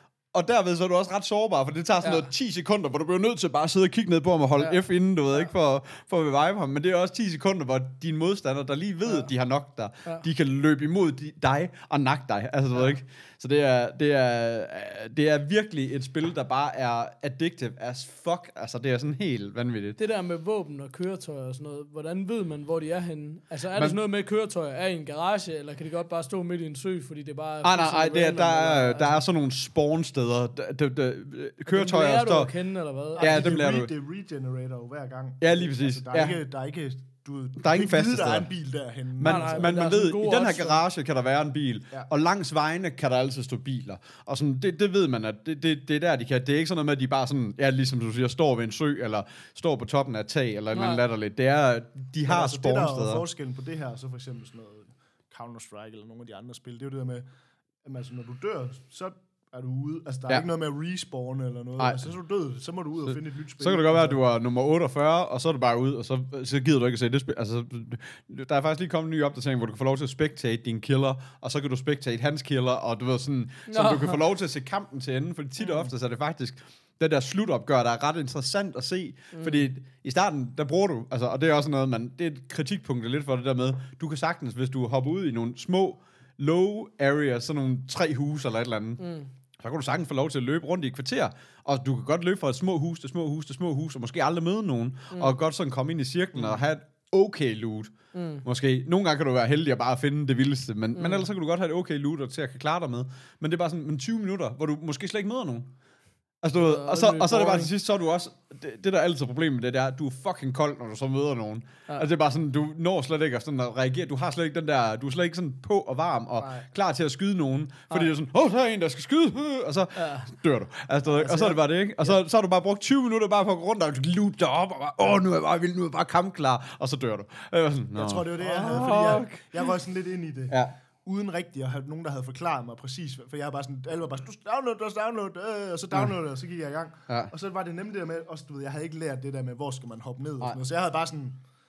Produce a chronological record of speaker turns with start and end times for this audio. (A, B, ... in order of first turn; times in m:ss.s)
0:00.3-0:20.0 A
0:20.0-0:29.2 B
0:23.7-0:24.0 A
0:27.6-0:32.5 A
0:31.7-0:33.4 B
0:33.2-0:39.7 C
0:33.2-0:33.9 A
0:35.4-0:36.4 A
0:37.6-0:38.5 A
0:39.2-0:53.2 A
0:39.2-0:40.8 B
0:50.7-0:51.0 B
0:52.2-0:57.2 C
0:57.8-1:04.2 C
1:01.8-1:02.1 A
1:03.1-1:29.0 A
1:13.7-1:14.2 B
1:19.3-1:19.6 B
1:29.0-1:29.3 B
1:29.6-1:37.9 A
1:38.1-1:38.4 B
1:38.4-1:45.7 A
1:40.9-1:41.3 B
1:46.4-2:09.4 A
1:46.5-1:47.7 B
1:56.4-1:56.6 B
2:00.0-2:00.3 B
2:01.2-2:01.6 C
2:07.9-2:21.4 C